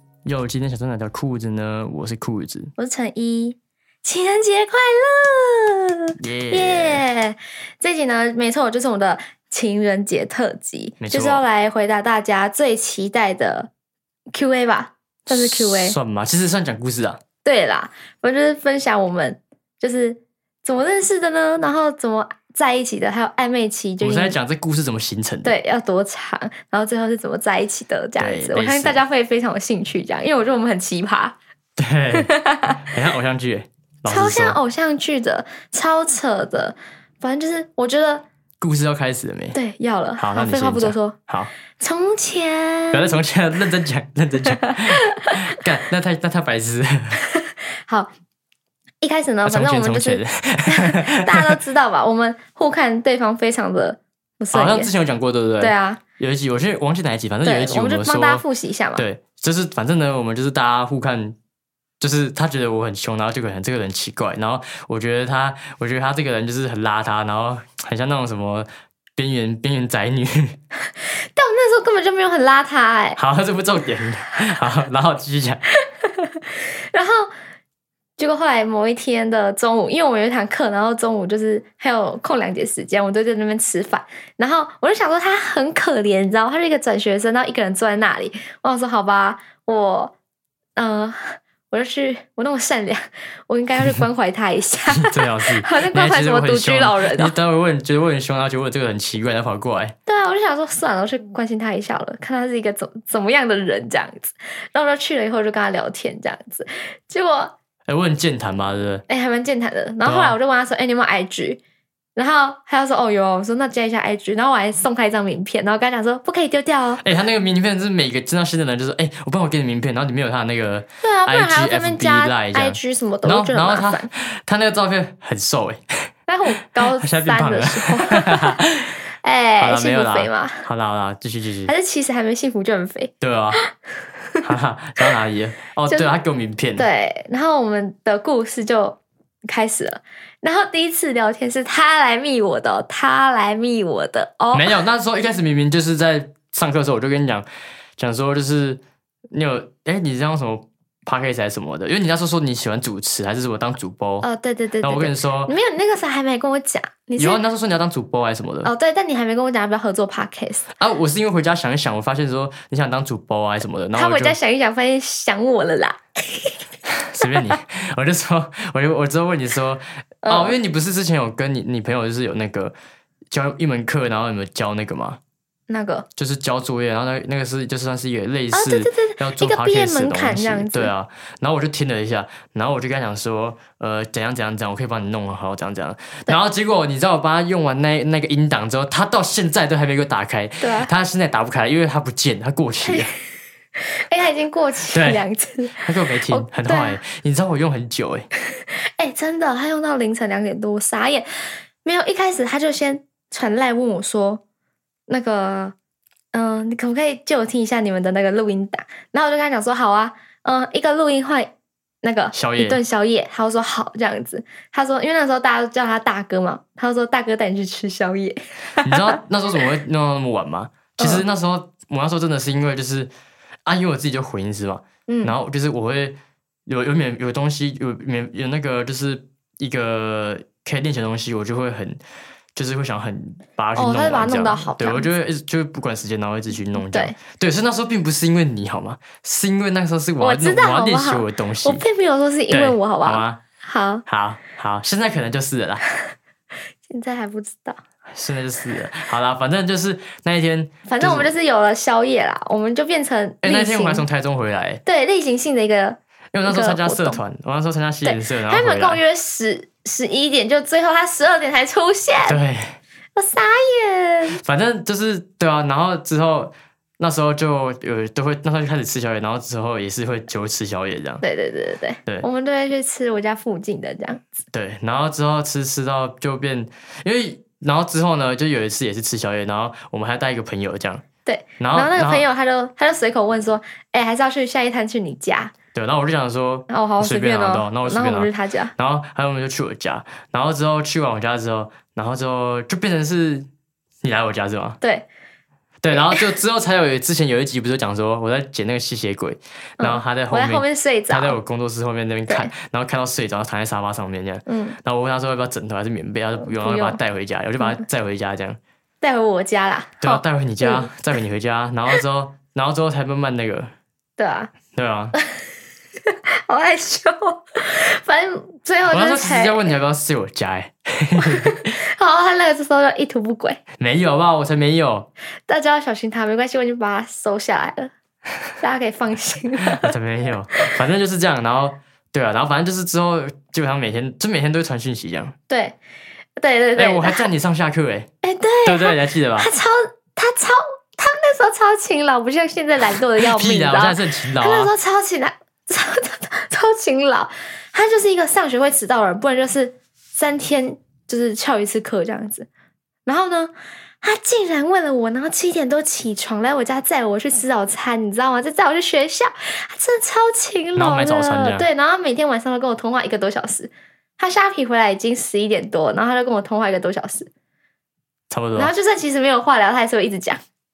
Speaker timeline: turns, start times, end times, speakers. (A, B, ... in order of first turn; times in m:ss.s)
0:00.2-0:02.7 A
0:02.8-0:13.7 B
0:06.2-0:07.0 A
0:11.0-0:11.4 A
0:14.3-0:16.0 B
0:15.3-0:17.2 A
0:17.4-0:24.4 B
0:24.0-0:25.6 A
0:25.4-0:31.4 B
0:28.2-0:29.0 A
0:31.8-0:34.6 A
0:32.1-0:32.9 B
0:34.1-0:38.2 B
0:38.6-0:39.6 A
0:39.5-0:41.2 B
0:40.2-0:41.5 A
0:41.8-0:43.2 B
0:42.9-0:47.2 A
0:44.6-0:45.4 B
0:47.2-0:48.1 B
0:49.0-0:54.9 B
0:49.5-0:51.6 A
0:54.5-0:58.4 A
0:55.6-0:56.0 B
0:57.4-0:59.0 B
0:59.0-1:01.4 A
1:02.0-1:10.6 A
1:11.0-1:13.2 B
1:13.2-1:15.6 A
1:15.8-1:17.3 B
1:18.2-1:30.1 B
1:30.8-1:37.3 B
1:34.9-1:39.9 A
1:40.1-1:47.5 B
1:47.9-1:49.0 A
1:49.1-1:51.6 B
1:50.0-1:50.4 A
1:52.2-1:57.0 B
1:57.0-2:06.1 A
2:01.0-2:04.1 B
2:06.3-2:08.6 B
2:06.8-2:09.0 A
2:09.2-2:10.7 B
2:09.6-2:11.7 A
2:11.7-2:13.7 B
2:13.2-2:13.6 A
2:14.4-2:16.9 A
2:16.8-2:24.8 B
2:24.5-2:27.4 A
2:28.0-2:34.2 A
2:34.2-2:37.4 B
2:34.8-2:35.5 A
2:37.2-2:38.7 A
2:38.6-2:40.7 B
2:40.8-2:44.4 A
2:43.9-2:46.6 B
2:47.0-2:52.8 A
2:47.2-2:47.6 B
2:50.2-2:50.6 B
2:53.3-2:55.2 A
2:55.7-2:56.1 B
2:56.2-3:13.1 A
2:58.5-3:00.9 B
3:10.6-3:10.9 B
3:14.1-3:17.0 B
3:14.9-3:15.2 A
3:15.8-3:18.3 A
3:18.5-3:21.3 B
3:21.8-3:24.4 B
3:25.1-3:25.7 B
3:26.3-3:39.2 B
3:32.3-3:32.8 A
3:38.8-3:43.1 A
3:43.7-3:52.0 A
3:45.1-3:45.4 B
3:52.5-4:01.8 A
3:53.8-3:55.1 B
3:56.8-3:57.2 B
4:00.2-4:04.0 B
4:02.5-4:03.4 A
4:04.1-4:05.8 A
4:06.8-4:07.8 B
4:08.1-4:11.3 A
4:10.9-4:14.0 B
4:13.4-4:14.8 A
4:14.8-4:17.2 B
4:16.3-4:19.0 A
4:18.0-4:22.4 B
4:22.3-4:22.8 A
4:23.2-4:24.4 B
4:24.4-4:31.2 A
4:31.2-4:34.3 B
4:34.5-4:41.0 A
4:41.2-4:45.5 B
4:41.6-4:42.2 A
4:45.7-4:53.5 A
4:46.7-4:48.7 B
4:54.0-4:54.8 A
4:54.8-4:55.1 B
4:55.8-5:08.6 A
4:55.9-4:56.2 B
4:59.8-5:01.4 B
5:04.5-5:04.8 B
5:06.4-5:07.0 B
5:09.0-5:10.9 B
5:10.0-5:13.7 A
5:14.2-5:14.5 B
5:14.7-5:15.1 A
5:16.1-5:19.7 B
5:18.9-5:21.7 A
5:21.2-5:23.6 B
5:23.8-5:25.1 A
5:25.5-5:27.9 B
5:28.6-5:29.9 B
5:29.7-5:35.4 A
5:35.5-5:35.8 B
5:36.4-5:37.3 B
5:36.8-5:38.1 A
5:38.2-5:52.5 B
5:38.6-5:39.5 A
5:43.2-5:44.7 A
5:53.1-6:07.3 B
6:00.8-6:01.7 A
6:08.3-6:08.7 A
6:08.6-6:10.4 B